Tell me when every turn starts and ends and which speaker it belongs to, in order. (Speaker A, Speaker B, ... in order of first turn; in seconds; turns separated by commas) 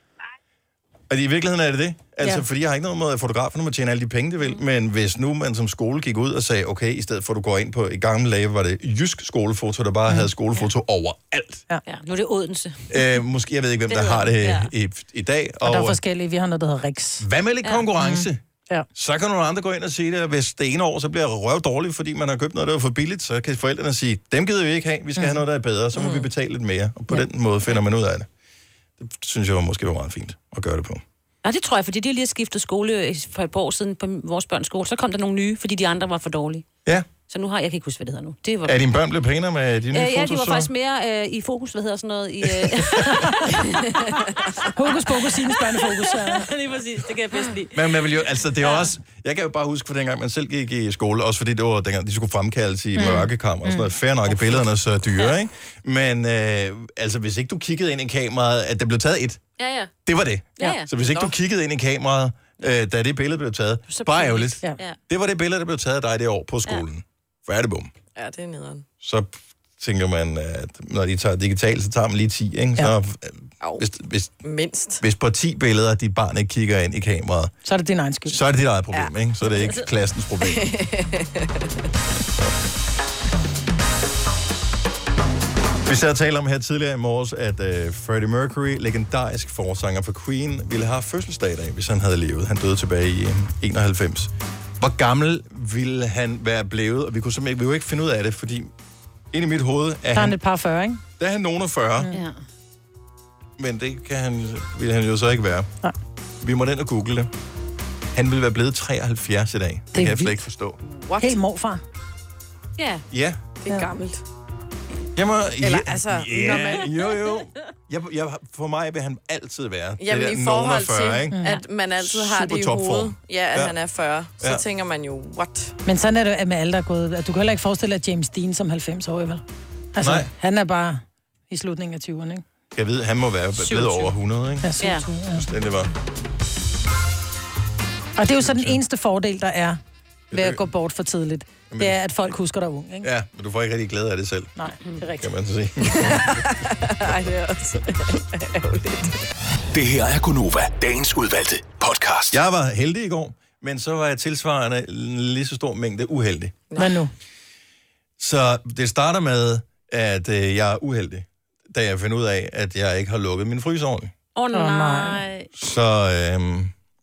Speaker A: 1.1-11.6, Speaker B: 11.9-13.1, Speaker A: 12.9-16.0, Speaker B: 13.9-14.7, Speaker C: 15.6-17.2, Speaker A: 17.2-18.4, Speaker C: 18.0-18.9, Speaker A: 18.9-28.3, Speaker D: 25.9-26.3, Speaker A: 29.0-31.0, Speaker B: 31.4-36.6, Speaker B: 37.3-38.8, Speaker A: 38.6-40.7, Speaker B: 39.9-44.6, Speaker A: 42.4-43.1, Speaker C: 44.7-46.4, Speaker B: 46.0-48.0, Speaker A: 47.7-59.4, Speaker B: 48.6-48.9, Speaker C: 53.0-53.9, Speaker B: 54.3-55.4, Speaker B: 59.6-59.9, Speaker A: 60.0-67.9, Speaker B: 60.6-61.3, Speaker B: 63.9-65.0, Speaker D: 68.2-68.9, Speaker A: 69.0-74.3, Speaker D: 74.4-75.0, Speaker A: 75.0-77.5, Speaker C: 77.6-78.4, Speaker A: 78.3-80.7, Speaker B: 79.5-79.8, Speaker D: 80.4-81.7, Speaker A: 85.9-98.7, Speaker A: 99.3-100.4, Speaker C: 100.1-101.0, Speaker A: 101.2-102.1, Speaker A: 103.6-105.7, Speaker A: 106.4-107.3, Speaker A: 108.1-110.8, Speaker C: 109.9-110.4, Speaker D: 110.8-111.4, Speaker C: 111.2-111.8, Speaker B: 112.8-113.0, Speaker A: 113.1-113.4, Speaker D: 113.6-114.2, Speaker A: 115.2-121.4, Speaker D: 115.6-116.9, Speaker B: 116.5-116.8, Speaker D: 120.0-125.7, Speaker C: 121.3-121.6, Speaker A: 122.0-123.8, Speaker A: 124.4-124.6, Speaker C: 125.8-129.4, Speaker C: 129.9-132.4, Speaker A: 130.0-130.3, Speaker A: 132.7-134.7, Speaker C: 134.6-135.4, Speaker B: 134.8-135.1, Speaker A: 135.3-135.9, Speaker C: 138.2-139.8, Speaker A: 138.4-138.8, Speaker A: 140.3-140.6, Speaker C: 140.3-143.1, Speaker A: 141.7-142.3, Speaker A: 143.0-144.5, Speaker C: 144.6-145.3, Speaker A: 145.2-146.5, Speaker D: 145.8-149.2, Speaker E: 149.7-152.4, Speaker A: 152.3-156.6, Speaker C: 156.8-157.1, Speaker A: 158.2-164.1, Speaker B: 164.3-165.5, Speaker C: 164.5-165.2, Speaker A: 165.5-166.7